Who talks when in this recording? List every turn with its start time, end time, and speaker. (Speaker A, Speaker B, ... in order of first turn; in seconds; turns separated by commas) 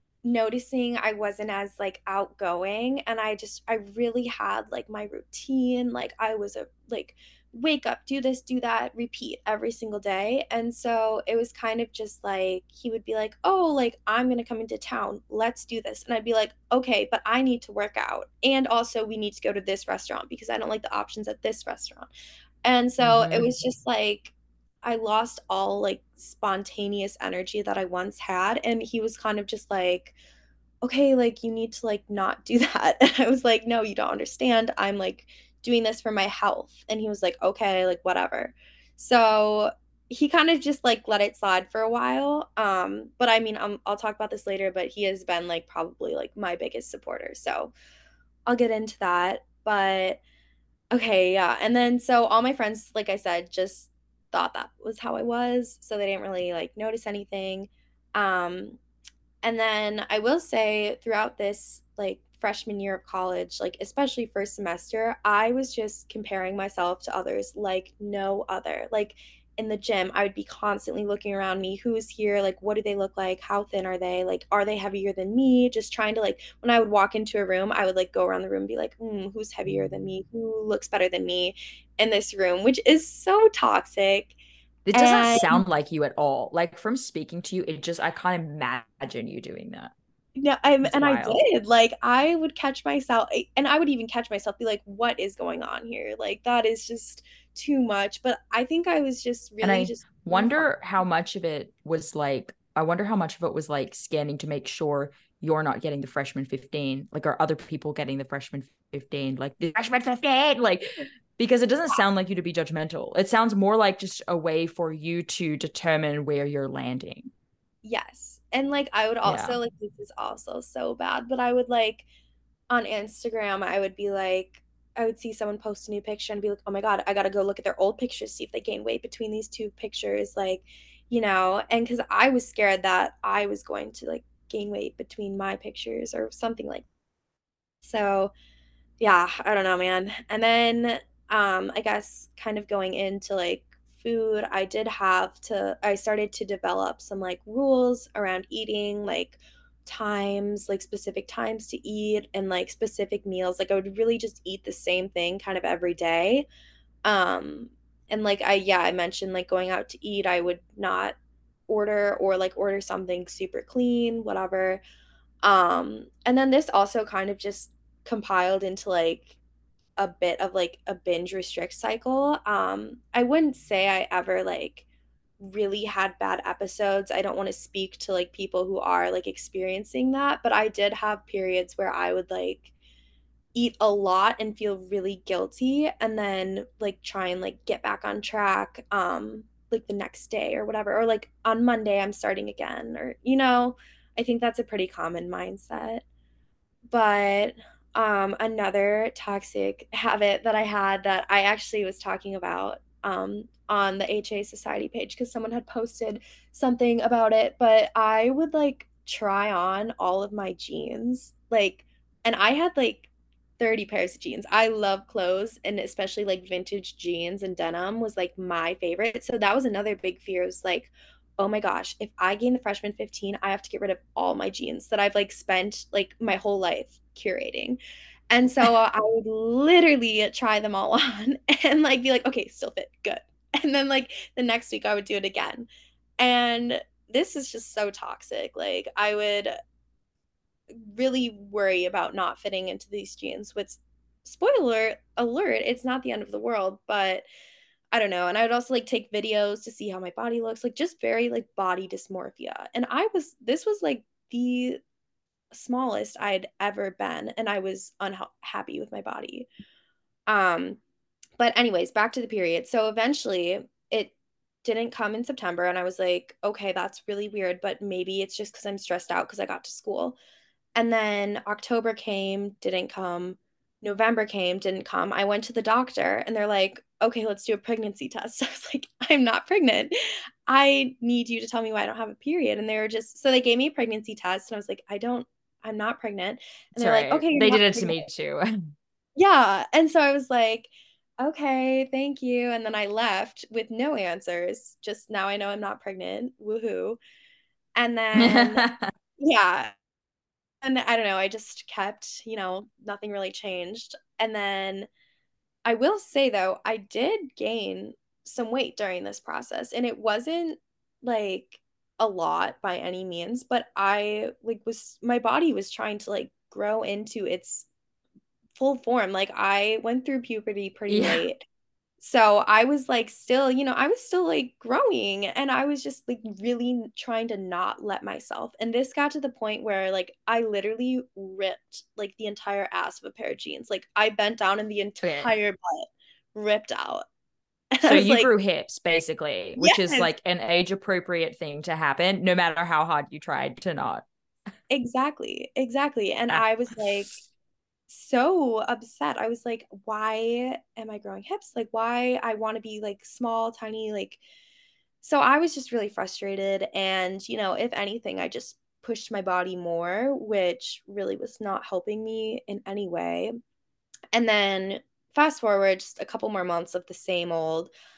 Speaker A: 0.2-22.1, Speaker A: 22.6-30.1, Speaker B: 23.0-23.5, Speaker A: 30.8-47.7, Speaker A: 48.5-50.2, Speaker A: 50.9-58.8, Speaker A: 59.4-84.4, Speaker B: 84.9-89.9, Speaker A: 84.9-85.6, Speaker A: 90.4-100.7, Speaker B: 90.8-91.4, Speaker B: 99.6-110.8, Speaker B: 111.4-117.3, Speaker A: 117.8-122.1, Speaker B: 119.2-119.6, Speaker A: 122.7-136.8, Speaker A: 137.8-138.3, Speaker A: 139.0-156.5, Speaker A: 157.1-161.2, Speaker A: 161.7-164.8, Speaker A: 165.4-169.4, Speaker A: 170.0-174.8, Speaker A: 175.4-182.7, Speaker A: 183.5-196.0, Speaker A: 196.9-213.1, Speaker A: 213.6-227.8, Speaker A: 228.3-235.7, Speaker A: 236.2-239.5, Speaker A: 240.8-247.2, Speaker A: 247.9-254.8, Speaker A: 255.5-259.5, Speaker A: 260.3-260.8, Speaker A: 261.4-264.1, Speaker A: 264.6-270.2, Speaker A: 270.8-279.9, Speaker A: 280.5-288.1, Speaker B: 286.8-288.5, Speaker A: 289.2-297.0, Speaker A: 297.8-299.7, Speaker B: 298.1-298.9, Speaker A: 300.6-304.9, Speaker A: 305.6-317.7, Speaker A: 318.6-321.4, Speaker B: 320.9-321.3, Speaker A: 322.0-337.0, Speaker B: 335.0-335.3, Speaker A: 337.8-338.3, Speaker B: 337.8-344.1, Speaker A: 339.6-340.1, Speaker A: 344.7-347.2, Speaker A: 347.9-354.2, Speaker A: 355.0-363.3, Speaker A: 364.1-367.7